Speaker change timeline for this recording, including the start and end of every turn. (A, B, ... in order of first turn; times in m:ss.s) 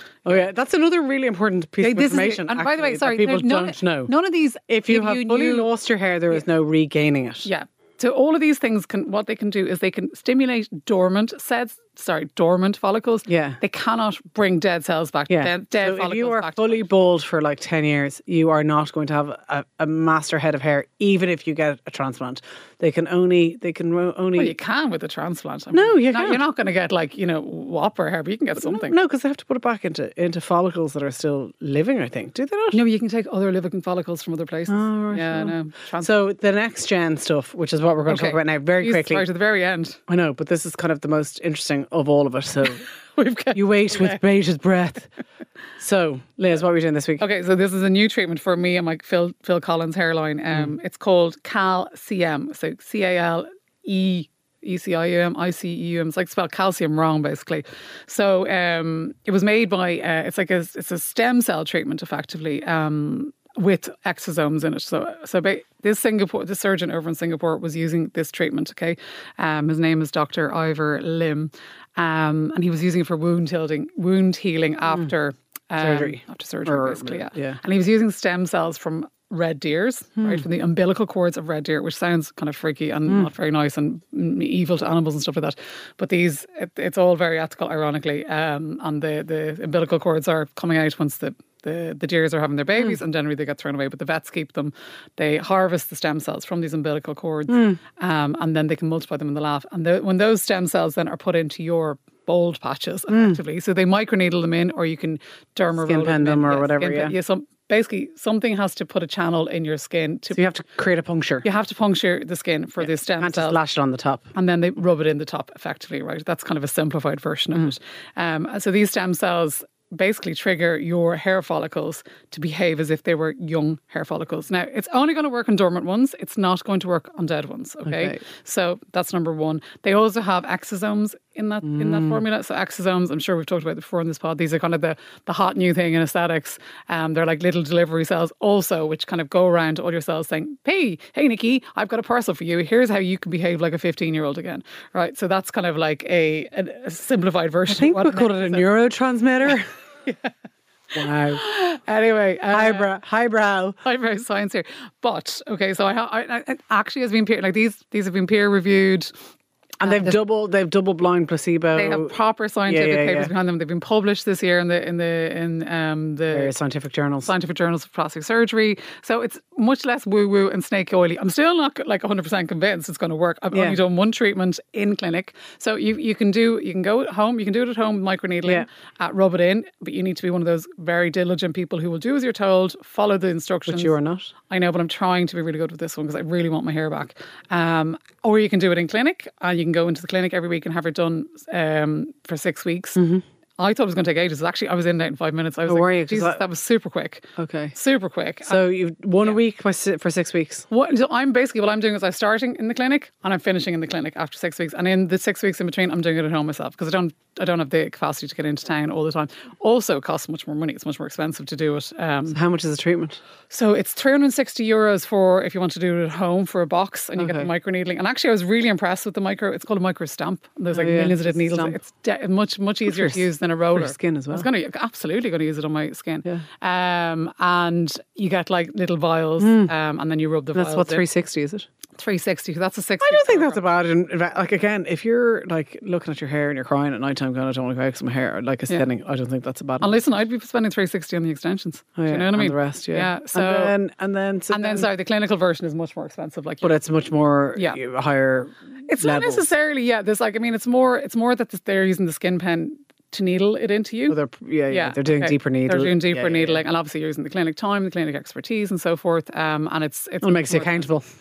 0:00.2-0:04.1 A
0:01.8-0:05.7 B
0:04.7-0:07.5 A
0:07.4-0:16.8 B
0:13.2-0:13.6 A
0:15.3-0:24.5 A
0:24.4-0:29.0 B
0:25.7-0:26.4 A
0:28.6-0:32.8 A
0:32.7-0:36.1 B
0:34.7-0:39.2 A
0:38.1-0:40.0 B
0:40.1-0:42.8 A
0:43.2-0:44.2 B
0:43.5-0:45.1 A
0:45.8-0:47.2 A
0:47.2-1:50.4 B
1:15.8-1:17.6 A
1:20.2-1:20.4 A
1:37.5-1:37.8 A
1:43.1-1:43.4 A
1:45.8-1:47.1 A
1:50.3-1:51.4 A
1:51.4-1:53.6 B
1:52.8-1:54.3 A
1:54.3-2:28.7 B
2:07.8-2:08.2 A
2:11.6-2:12.2 A
2:27.7-2:29.7 A
2:30.0-2:30.3 B
2:30.9-2:31.4 A
2:31.3-2:32.9 B
2:32.5-2:33.8 A
2:33.8-2:39.1 B
2:39.8-2:42.1 A
2:39.8-2:40.1 B
2:41.7-2:46.5 B
2:42.7-2:43.3 A
2:46.3-2:47.3 A
2:47.2-3:04.0 B
2:53.5-2:53.8 A
3:03.7-3:04.3 A
3:04.5-3:13.0 B
3:13.0-3:13.2 A
3:13.6-3:18.6 B
3:15.7-3:16.4 A
3:17.4-3:17.7 A
3:18.4-3:20.7 A
3:20.7-3:32.4 B
3:32.3-3:33.2 A
3:33.5-3:51.0 B
3:37.2-3:37.5 A
3:40.7-3:41.8 A
3:42.8-3:44.5 A
3:49.4-3:49.7 A
3:50.5-3:51.7 A
3:52.0-3:53.6 B
3:53.0-4:00.0 A
3:59.8-4:03.8 B
4:02.0-4:04.9 A
4:04.5-4:06.7 B
4:06.6-4:09.4 A
4:08.8-4:14.2 B
4:14.1-4:16.6 A
4:14.7-4:20.9 B
4:20.2-4:21.0 A